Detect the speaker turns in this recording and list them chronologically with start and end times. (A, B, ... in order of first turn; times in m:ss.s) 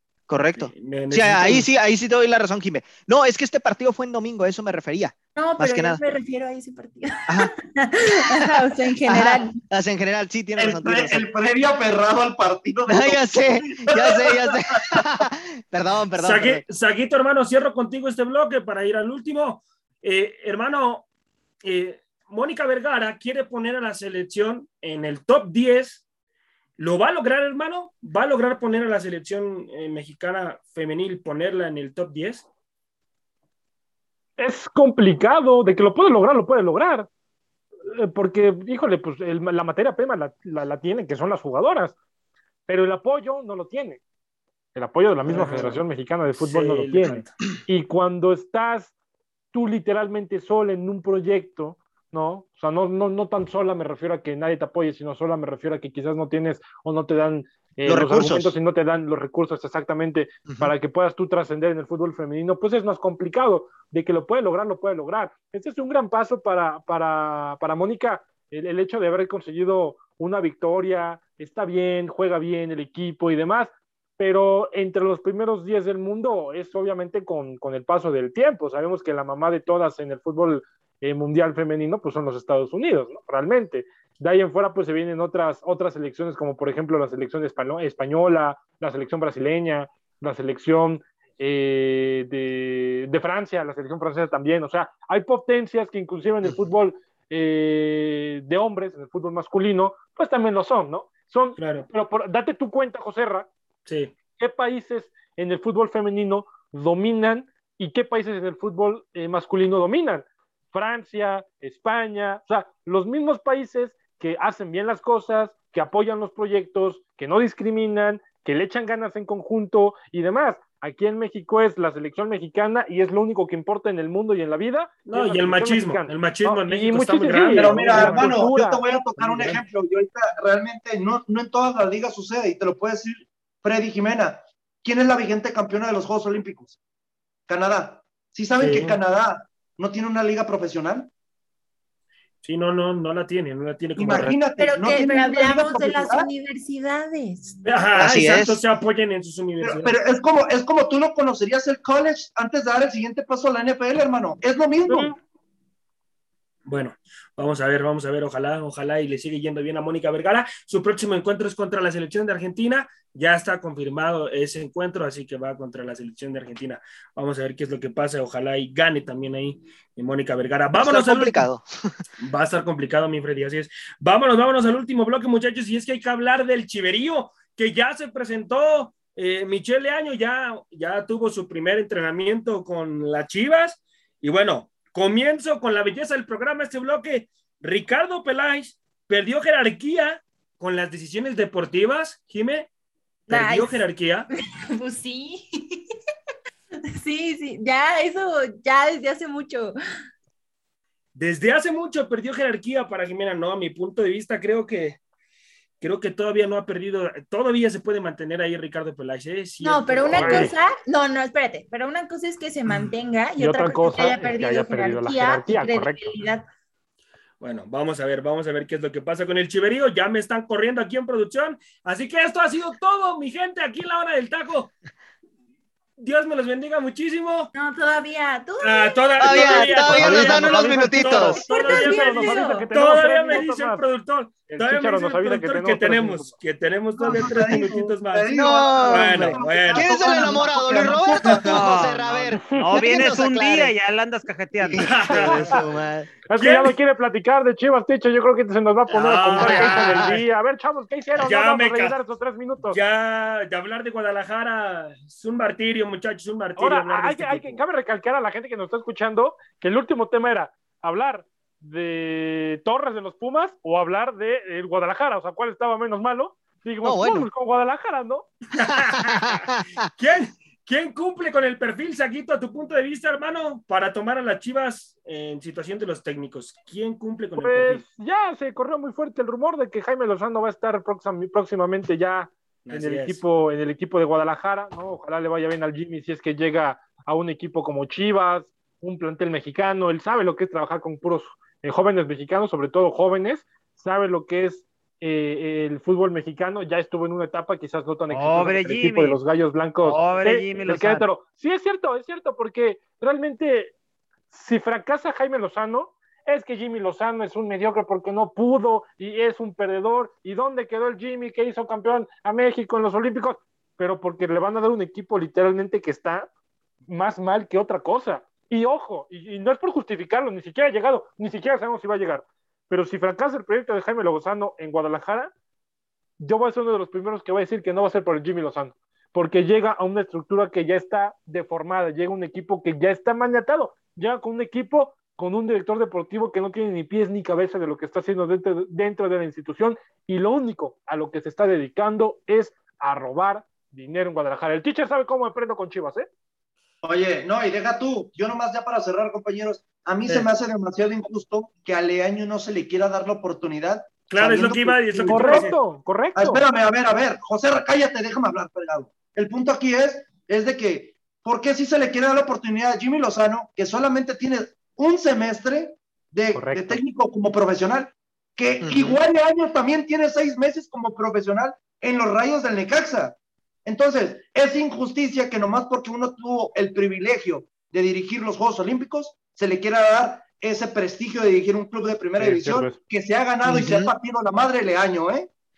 0:00.3-0:06.0 A
0:00.6-0:01.7 B
0:05.4-0:09.6 C
0:09.0-0:11.3 A
0:10.6-0:15.2 D
0:12.9-0:16.6 A
0:16.2-0:21.1 B
0:21.6-0:26.0 B
0:26.8-0:32.5 B
0:34.4-0:37.1 E
0:37.9-0:42.0 E
0:42.7-0:44.0 E
0:44.8-0:48.9 E
0:45.3-0:45.8 B
0:46.4-0:47.3 B
0:49.5-1:43.5 E
0:57.9-0:58.5 A
1:00.5-1:00.7 A
1:41.6-1:41.9 B
1:43.9-1:44.1 B
1:44.4-2:09.6 E
2:05.1-2:08.4 B
2:07.5-2:16.8 D
2:17.5-2:21.1 D
2:18.6-2:19.0 B
2:22.4-2:24.4 B
2:24.0-2:26.3 D
2:24.1-2:24.4 A
2:24.6-2:27.6 C
2:27.6-2:30.0 B
2:28.0-2:28.6 A
2:29.6-2:35.1 D
2:36.7-2:51.4 B
2:50.7-2:52.0 A
2:52.2-3:12.7 B
3:13.3-3:14.3 B
3:13.3-3:15.9 C
3:17.0-3:19.8 C
3:21.2-3:25.0 B
3:25.8-3:30.6 B
3:29.6-3:36.5 C
3:30.2-3:30.5 E
3:33.4-3:36.1 E
3:37.4-3:44.7 B
3:46.0-3:47.5 B
3:47.5-3:50.5 C
3:48.6-4:00.4 B
3:49.2-3:51.4 A
3:51.3-3:53.4 C
3:51.4-3:53.9 E
3:54.5-3:56.3 E
3:57.0-4:01.9 D
3:58.3-4:03.7 A
4:01.3-4:05.4 F
4:02.3-4:02.8 E
4:04.6-4:06.1 A
4:04.8-4:05.6 B
4:06.3-4:12.8 E
4:06.4-4:06.8 B
4:08.9-4:10.2 B
4:09.4-4:10.1 A
4:11.2-4:12.0 B
4:12.7-4:17.6 B
4:16.6-4:28.3 E
4:26.8-4:27.3 A
4:28.5-4:29.4 B
4:28.6-4:29.9 A
4:30.0-4:37.8 B
4:37.4-5:03.7 E
4:42.6-4:43.2 B
4:58.1-4:59.2 F
4:59.8-5:01.0 F
5:04.3-5:16.3 E
5:16.9-5:25.3 E
5:26.2-5:46.1 E
5:46.8-5:55.5 D
5:54.1-5:55.6 B
5:55.1-5:56.4 E
5:56.2-6:25.3 D
6:06.4-6:06.8 E
6:08.6-6:09.0 A
6:22.2-6:22.8 E
6:23.4-6:23.9 A